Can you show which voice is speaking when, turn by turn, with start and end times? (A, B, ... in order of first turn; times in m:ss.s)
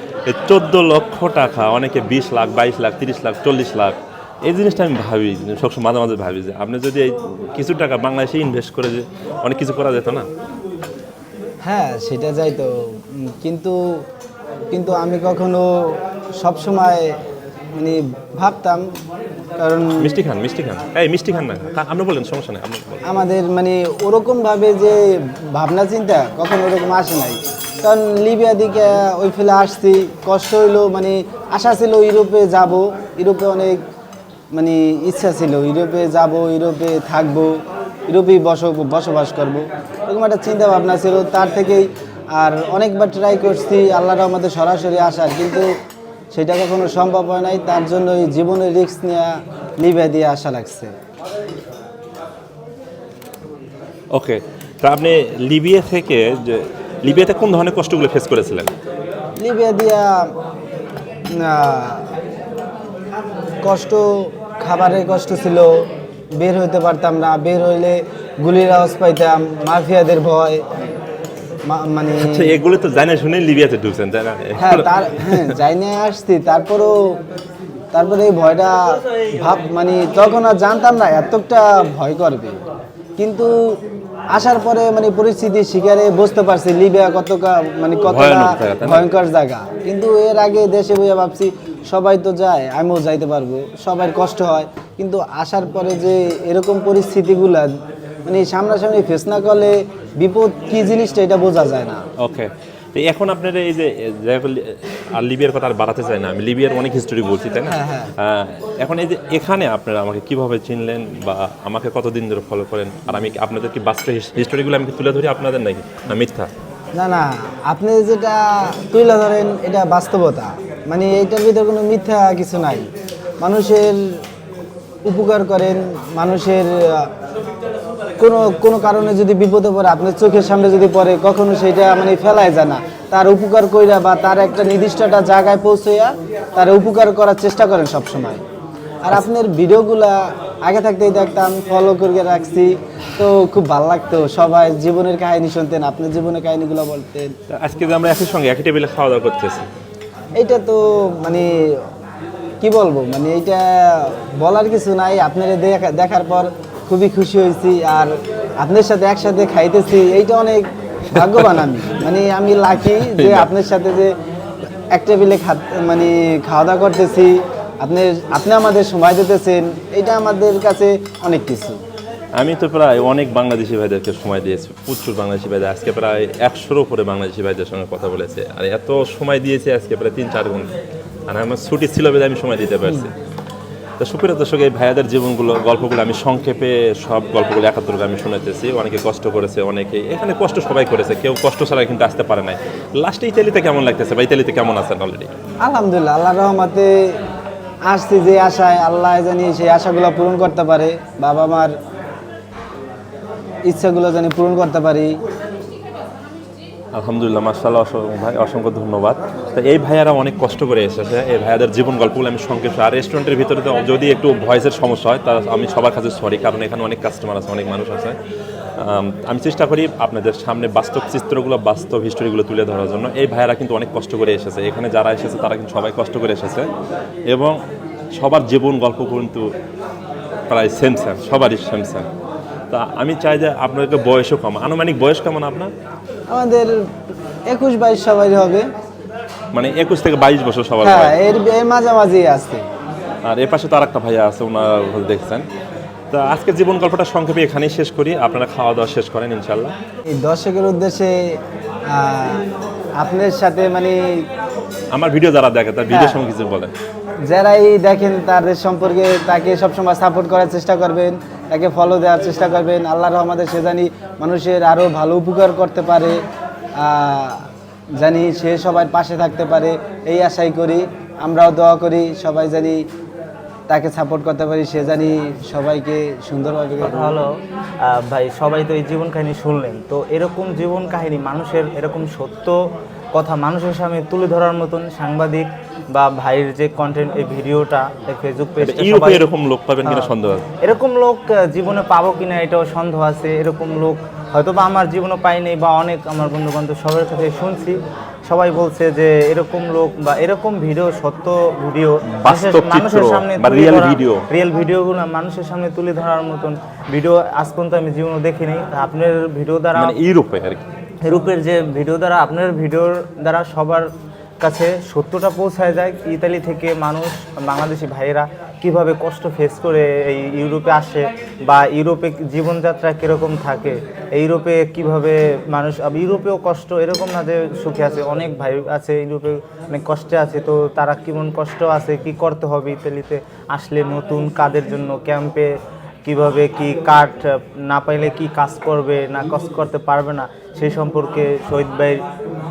0:00.3-0:10.3 A
0:11.6-0:13.8 B
0:14.7-0:15.7 B
0:16.4-0:17.1 B
0:17.8-0:18.8 B
0:19.6-0:20.2 B
0:20.0-0:23.0 A
0:23.0-0:25.0 B
0:25.5-0:33.8 B
0:34.5-0:37.5 B
0:38.1-0:45.7 B
0:46.3-0:50.9 B
0:54.1-0:58.7 A
0:59.4-1:00.3 B
1:01.3-1:02.1 B
1:03.6-1:05.8 B
1:06.4-1:10.6 B
1:11.7-1:12.6 B
1:12.2-1:15.6 A
1:14.6-1:16.9 B
1:17.9-1:22.6 B
1:23.2-1:23.6 B
1:24.3-1:37.7 B
1:28.1-1:29.1 A
1:38.3-1:42.0 B
1:42.2-1:56.5 A
1:47.6-1:48.1 B
1:57.0-2:02.9 B
2:03.4-2:04.2 B
2:05.1-2:07.1 B
2:08.2-2:18.4 B
2:19.0-2:27.3 B
2:27.5-2:29.7 A
2:30.4-2:31.5 B
2:32.6-2:38.1 B
2:38.6-2:44.1 B
2:43.0-2:43.5 A
2:44.9-2:51.8 B
2:52.4-3:00.7 A
3:01.3-3:03.1 A
3:04.0-3:15.3 A
3:15.6-3:16.9 B
3:17.9-3:21.7 B
3:23.7-3:25.1 B
3:26.9-3:38.2 A
3:38.8-3:46.7 A
3:47.3-3:47.6 A
3:48.1-3:49.5 A
3:50.5-3:52.1 A
3:52.7-3:55.7 A
3:56.3-3:56.8 B
3:57.5-3:58.7 B
3:59.5-4:01.2 A
4:00.8-4:02.6 B
4:03.3-4:05.4 A
4:06.1-4:09.7 A
4:10.2-4:11.4 B
4:11.9-4:12.4 B
4:13.0-4:14.0 B
4:14.9-4:16.7 A
4:15.9-4:16.2 B
4:17.3-4:26.2 B
4:26.8-4:27.4 B
4:28.0-4:32.8 B
4:33.7-4:37.2 B
4:36.8-4:42.6 C
4:43.1-4:49.3 C
4:48.6-4:50.5 A
4:49.8-5:10.0 C
5:02.1-5:04.3 A
5:09.8-5:10.7 A
5:11.1-5:13.9 C
5:14.4-5:35.5 C
5:36.0-5:42.0 C